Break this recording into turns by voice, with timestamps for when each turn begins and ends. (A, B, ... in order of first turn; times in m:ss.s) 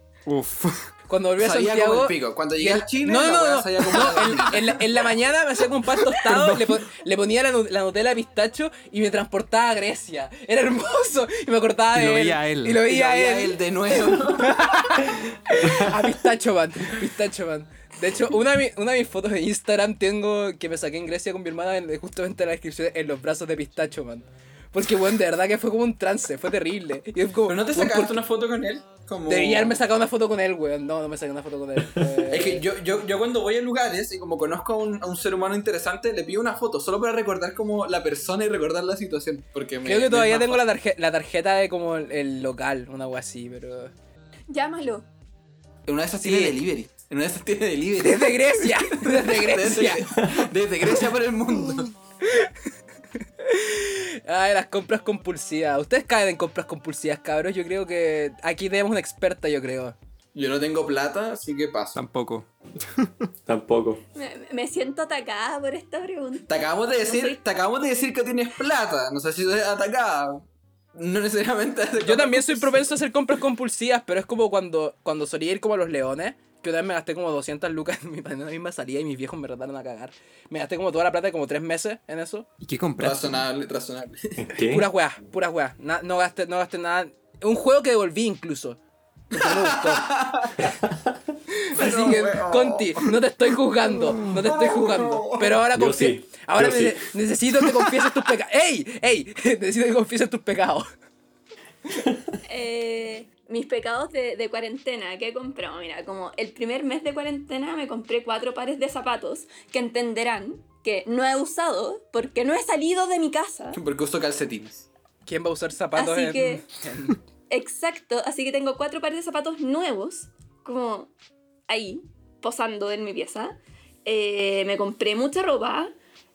0:00.2-0:00.9 A
0:01.1-0:28.2 B
0:01.4-0:05.0 C
0:06.2-0:06.8 A
0:11.9-0:12.8 A
0:12.8-0:15.0 C
0:27.5-0:29.8 C
0:29.3-0:32.6 B
0:32.3-0:40.6 C
0:39.8-0:43.9 B
0:44.5-0:45.0 D
0:45.8-0:51.9 C
0:46.2-0:46.6 B
0:48.0-0:50.0 B
0:52.2-0:52.5 B
0:53.4-0:59.9 B
1:00.3-1:02.0 C
1:01.9-1:03.3 A
1:03.5-1:04.0 E
1:04.1-1:07.4 D
1:06.5-1:12.8 C
1:12.0-1:22.5 B
1:22.6-1:23.4 A
1:23.0-1:24.4 C
1:24.4-1:24.9 E
1:24.6-1:28.8 B
1:29.3-1:30.1 B
1:29.3-1:30.6 C
1:30.6-1:31.1 E
1:31.5-1:40.9 B
1:31.7-1:33.1 C
1:34.1-1:35.6 C
1:35.7-1:37.1 E
1:42.4-1:53.8 D
1:53.7-1:54.8 C
1:55.2-1:57.2 B
1:56.0-1:56.6 D
1:57.5-2:01.1 D
2:01.7-2:05.9 D